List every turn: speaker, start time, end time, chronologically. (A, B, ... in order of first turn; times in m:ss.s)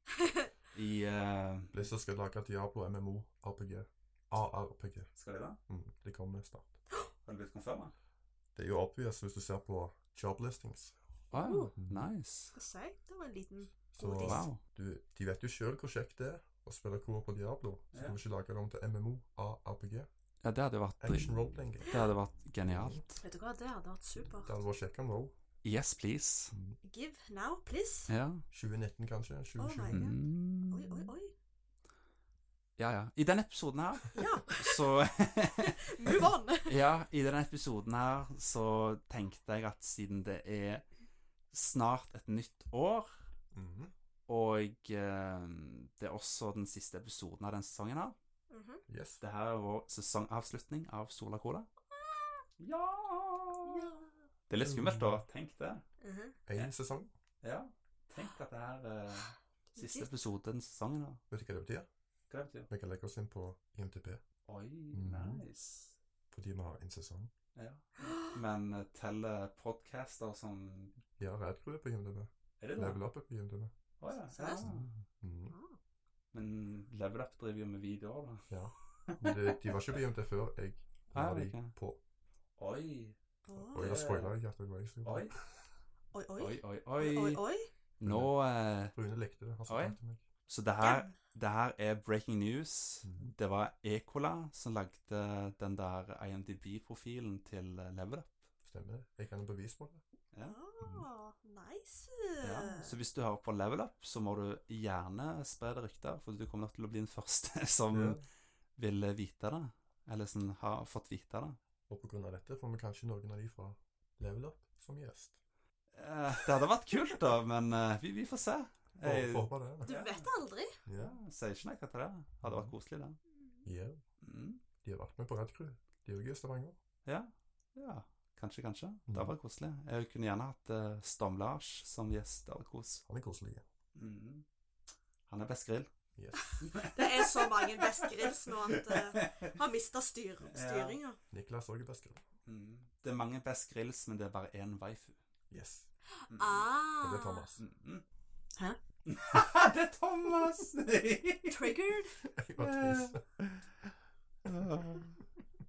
0:00.2-0:00.5 A
0:00.7-0:01.7 B
0:01.7-0:05.1 C
0:05.1-0:05.6 B
0:05.7-0:06.7 C
0:07.2-0:07.9 B
0:08.5-0:11.0 C
0:11.3-0:12.5 B
0:11.3-0:11.7 A
0:11.8-0:12.1 C
0:12.5-0:14.5 A
0:13.9-0:20.1 C
0:14.2-0:14.6 B
0:17.9-0:18.2 B
0:20.4-0:23.2 B
0:21.0-0:22.0 C
0:22.6-0:23.0 C
0:23.2-0:24.6 A
0:24.4-0:25.3 C
0:25.6-0:26.5 B
0:26.8-0:28.1 A
0:28.1-0:28.4 B
0:28.5-0:30.1 C
0:29.6-0:31.3 A
0:29.9-0:31.1 B
0:32.8-0:40.9 B
0:34.1-0:35.0 A
0:35.6-0:36.8 A
0:41.5-0:43.1 B
0:43.5-0:43.9 C
0:44.3-0:48.2 B
0:48.5-0:48.8 A
0:48.9-0:49.2 C
0:49.2-0:51.7 B
0:51.9-0:52.4 A
0:52.6-0:53.8 B
0:53.6-0:54.2 A
0:54.5-0:55.8 B
0:54.6-0:55.2 C
0:56.0-0:56.4 A
0:56.5-0:57.1 C
0:57.4-1:01.2 B
0:59.7-1:00.1 A
1:01.3-1:01.9 C
1:02.3-1:02.7 B
1:02.7-1:04.2 C
1:04.4-1:06.0 B
1:04.9-1:05.4 C
1:06.3-1:07.3 C
1:07.6-1:11.0 B
1:08.0-1:08.4 A
1:11.2-1:13.7 C
1:12.6-1:13.0 B
1:14.0-1:14.9 B
1:14.3-1:14.6 A
1:14.6-1:15.5 C
1:15.5-1:15.8 A
1:16.3-1:18.5 B
1:18.5-1:22.0 C
1:19.1-1:19.9 B
1:21.1-1:21.7 B
1:22.6-1:24.4 B
1:23.4-1:23.9 A
1:23.7-1:25.3 C
1:25.0-1:25.4 B
1:26.1-1:27.7 A
1:26.4-1:27.4 B
1:28.0-1:28.3 C
1:28.0-1:28.9 B
1:28.9-1:30.2 C
1:29.7-1:30.0 B
1:30.5-1:38.4 B
1:30.8-1:31.2 A
1:33.0-1:33.3 C
1:38.6-1:40.0 C
1:40.4-1:43.0 A
1:40.8-1:41.0 C
1:42.4-1:48.2 B
1:47.9-1:48.2 C
1:48.8-1:51.6 B
1:51.9-1:55.4 C
1:55.9-2:00.3 B
1:59.0-1:59.9 C
1:59.8-2:00.8 A
2:00.8-2:01.2 C
2:01.0-2:03.2 B
2:02.4-2:02.7 C
2:03.3-2:03.6 A
2:03.6-2:04.0 C
2:04.2-2:04.6 B
2:04.8-2:06.8 C
2:07.0-2:13.0 B
2:09.1-2:09.3 C
2:13.1-2:13.6 C
2:13.9-2:14.4 B
2:15.3-2:15.9 B
2:16.2-2:16.5 C
2:16.4-2:21.2 A
2:16.6-2:19.6 B
2:20.5-2:21.0 B
2:21.3-2:22.2 C
2:22.4-2:25.2 B
2:25.5-2:25.9 C
2:26.2-2:27.5 A
2:26.3-2:26.7 B
2:27.0-2:27.6 C
2:27.6-2:28.0 B
2:29.0-2:31.8 B
2:31.5-2:32.2 A
2:32.3-2:33.2 C
2:32.6-2:33.6 B
2:34.4-2:35.2 B